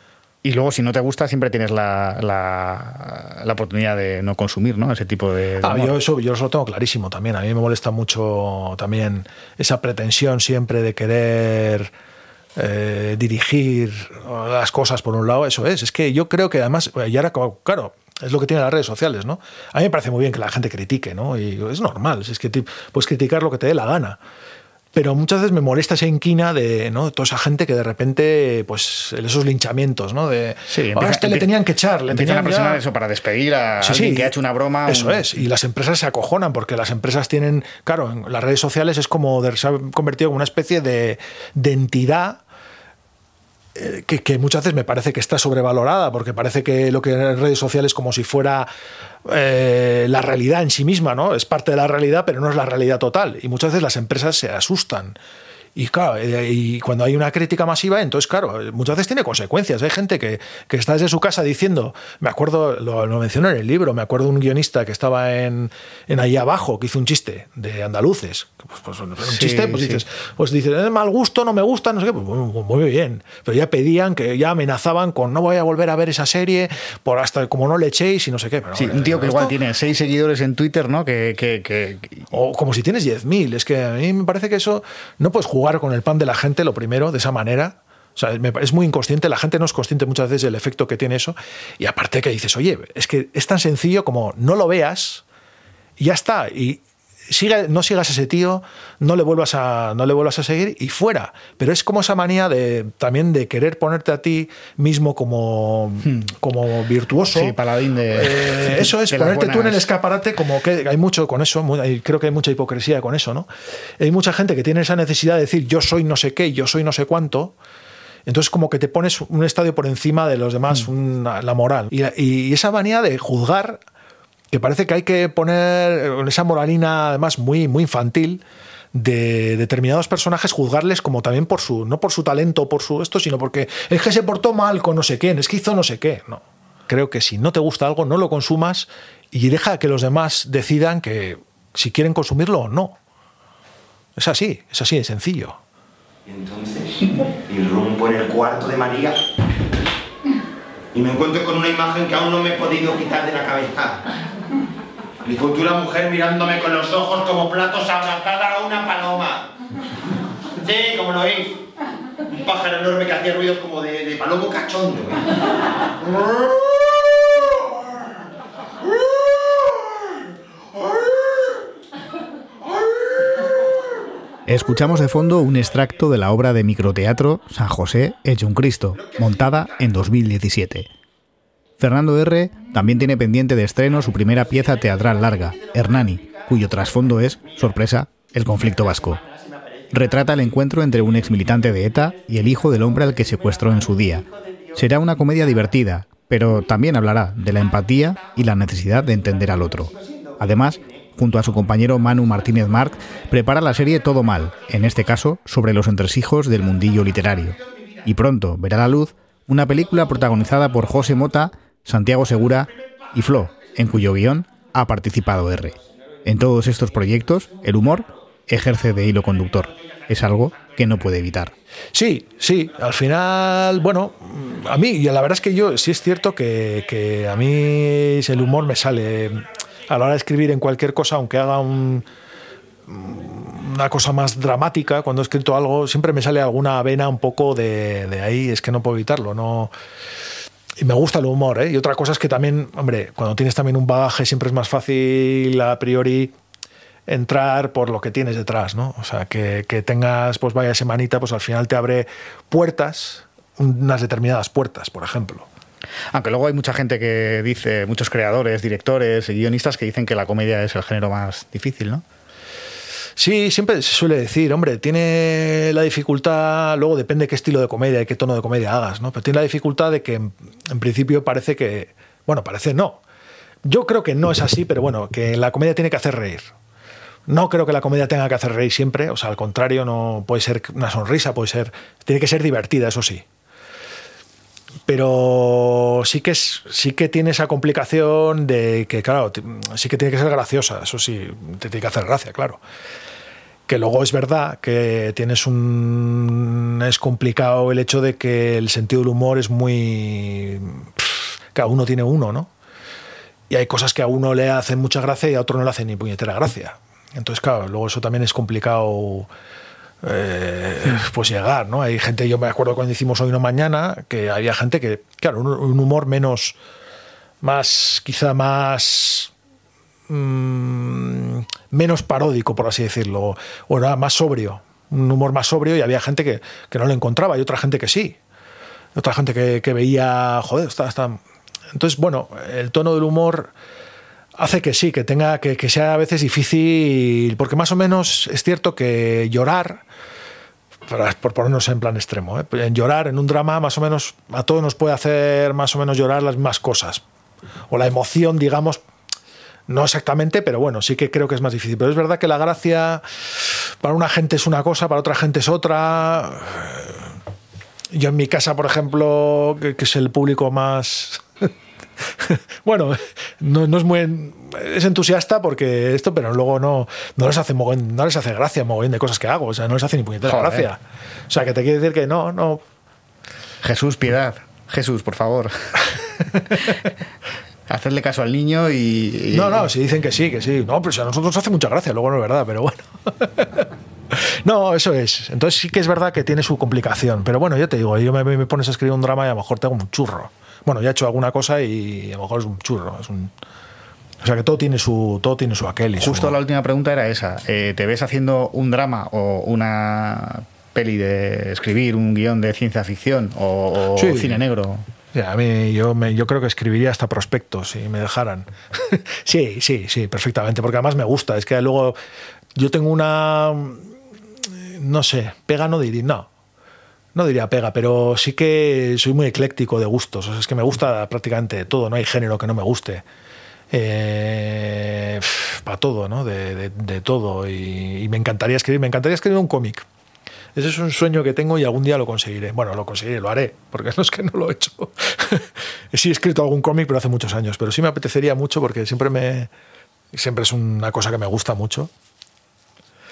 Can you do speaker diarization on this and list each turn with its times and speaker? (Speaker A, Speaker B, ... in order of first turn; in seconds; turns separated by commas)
Speaker A: 0.4-5.9, Speaker B: 5.6-11.9, Speaker B: 12.6-24.2, Speaker B: 24.9-32.8, Speaker A: 30.7-31.5, Speaker A: 32.1-35.3, Speaker B: 33.8-34.3, Speaker B: 34.9-42.4, Speaker B: 43.8-48.7, Speaker B: 49.3-55.2, Speaker B: 55.8-79.6, Speaker A: 69.2-70.0, Speaker A: 78.8-82.3, Speaker B: 82.3-95.2, Speaker B: 96.0-107.6, Speaker A: 107.3-109.9, Speaker B: 108.1-117.5, Speaker B: 118.3-123.8, Speaker B: 124.5-128.4, Speaker B: 128.9-143.0, Speaker B: 144.2-145.6, Speaker C: 146.3-146.9, Speaker C: 147.5-149.2, Speaker C: 150.9-154.0, Speaker C: 155.2-159.5, Speaker C: 160.6-161.5, Speaker C: 162.4-165.2, Speaker A: 174.5-180.9, Speaker A: 181.8-189.2, Speaker A: 189.9-221.5, Speaker B: 221.9-232.1, Speaker B: 232.9-239.7, Speaker B: 240.8-246.3, Speaker B: 247.1-255.5, Speaker A: 256.1-262.0, Speaker B: 263.2-273.0, Speaker B: 273.6-276.5, Speaker B: 277.3-283.2, Speaker B: 284.9-292.6, Speaker B: 293.7-302.5, Speaker B: 303.5-309.3, Speaker B: 310.0-316.6, Speaker B: 317.4-319.3, Speaker B: 320.1-328.2, Speaker B: 328.9-333.5, Speaker B: 334.4-339.8, Speaker B: 340.9-347.0, Speaker B: 347.7-348.8, Speaker B: 349.7-357.2, Speaker B: 357.9-361.5, Speaker B: 362.0-372.6, Speaker A: 370.2-370.7, Speaker A: 373.6-375.8, Speaker B: 376.4-376.7, Speaker A: 377.7-379.7, Speaker B: 379.3-393.3, Speaker B: 394.2-396.4, Speaker A: 396.0-404.9, Speaker B: 403.9-404.4, Speaker B: 405.1-412.0, Speaker B: 412.6-413.9, Speaker B: 414.4-416.3, Speaker B: 417.1-423.1, Speaker B: 423.7-429.9, Speaker B: 430.6-439.5, Speaker B: 440.1-441.9